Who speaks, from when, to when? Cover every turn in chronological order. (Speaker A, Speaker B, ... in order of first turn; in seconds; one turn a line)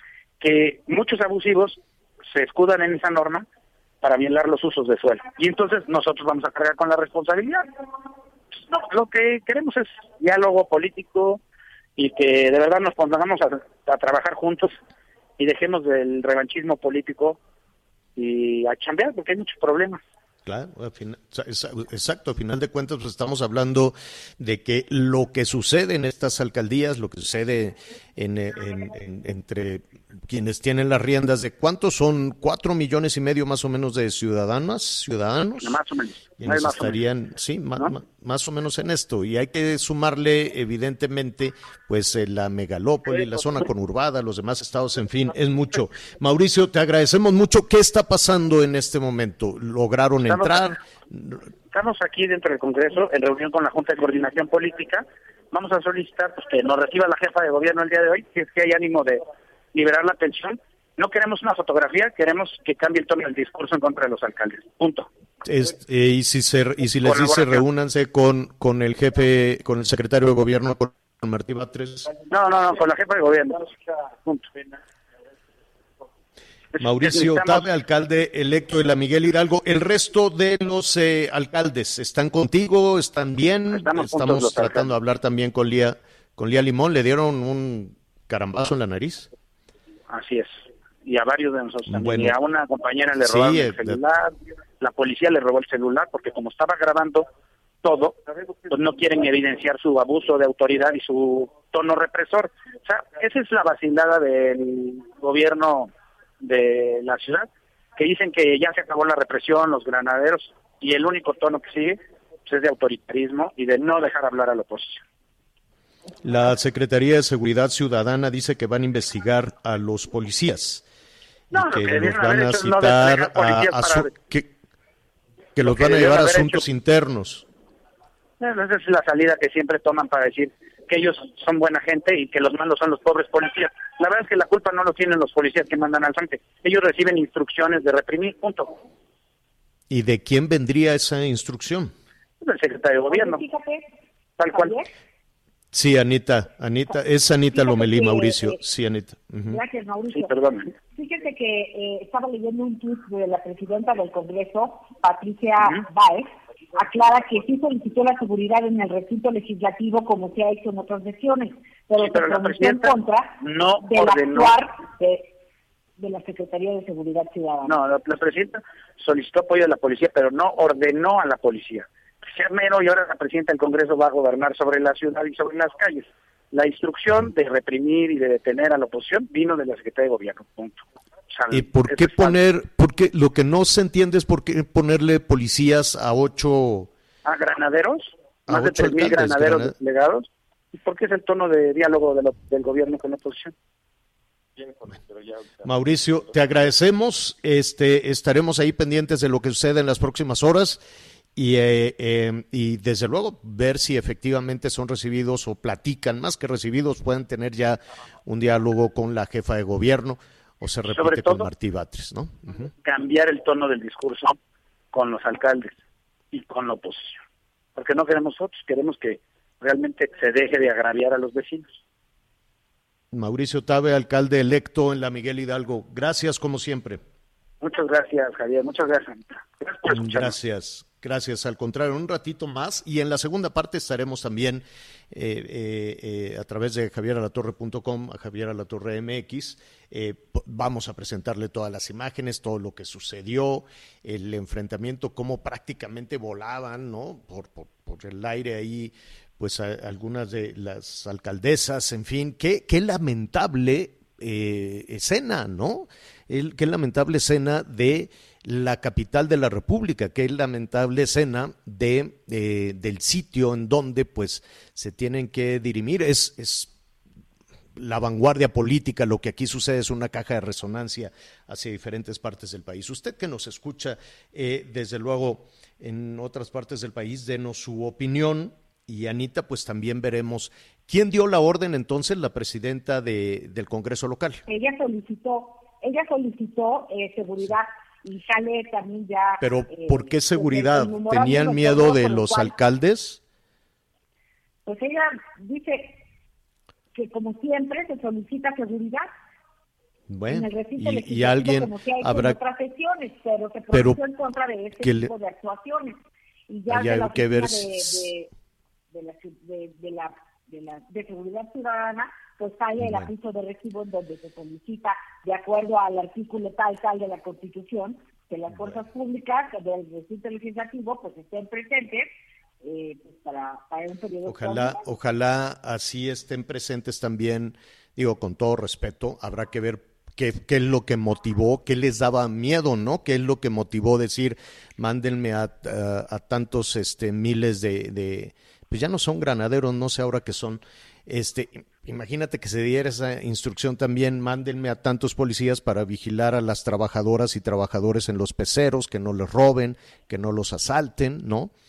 Speaker A: 0.4-3.5
Speaker A: 4.0-7.6
Speaker A: 8.7-11.4
Speaker A: 12.0-14.7
Speaker A: 15.4-17.4
Speaker A: 18.1-20.0
Speaker B: 20.4-35.8
Speaker A: 35.6-37.0
Speaker B: 36.4-51.4
Speaker A: 50.3-50.8
Speaker A: 51.7-59.2
Speaker A: 59.7-65.1
Speaker B: 65.4-72.1
Speaker A: 67.0-67.6
Speaker A: 72.3-74.7
Speaker A: 76.7-77.6
Speaker B: 76.8-89.3
Speaker A: 83.7-84.9
Speaker A: 90.1-97.3
Speaker B: 91.9-92.4
Speaker B: 93.2-94.0
Speaker A: 97.8-115.0
Speaker B: 116.2-120.8
Speaker B: 121.5-124.5
Speaker A: 121.5-124.1
Speaker B: 125.5-127.5
Speaker A: 125.6-126.6
Speaker A: 128.4-138.8
Speaker B: 139.9-141.9
Speaker A: 142.4-143.4
Speaker C: 143.1-143.9
Speaker A: 144.4-144.7
Speaker C: 144.5-144.9
Speaker B: 145.7-149.6
Speaker C: 147.5-148.6
Speaker C: 149.5-165.3
Speaker A: 150.1-150.7
Speaker A: 162.0-164.6
Speaker C: 166.0-167.8
Speaker A: 167.7-182.3
Speaker B: 181.5-186.9
Speaker A: 187.2-193.5
Speaker B: 188.5-189.7
Speaker B: 195.6-200.8
Speaker B: 201.3-212.7
Speaker A: 210.9-211.5
Speaker A: 212.8-214.3
Speaker A: 214.9-215.8
Speaker A: 216.3-217.2
Speaker A: 217.8-221.8
Speaker B: 223.1-227.0
Speaker A: 227.6-230.3
Speaker B: 229.9-266.7
Speaker B: 267.8-284.4
Speaker C: 284.5-292.5
Speaker B: 289.4-293.2
Speaker C: 294.6-296.0
Speaker C: 296.9-299.1
Speaker B: 300.1-302.4
Speaker C: 300.3-308.3
Speaker B: 303.7-304.0
Speaker B: 304.8-305.1
Speaker B: 306.7-308.1
Speaker C: 308.9-322.1
Speaker B: 312.8-313.1
Speaker C: 322.6-324.8
Speaker B: 324.2-351.5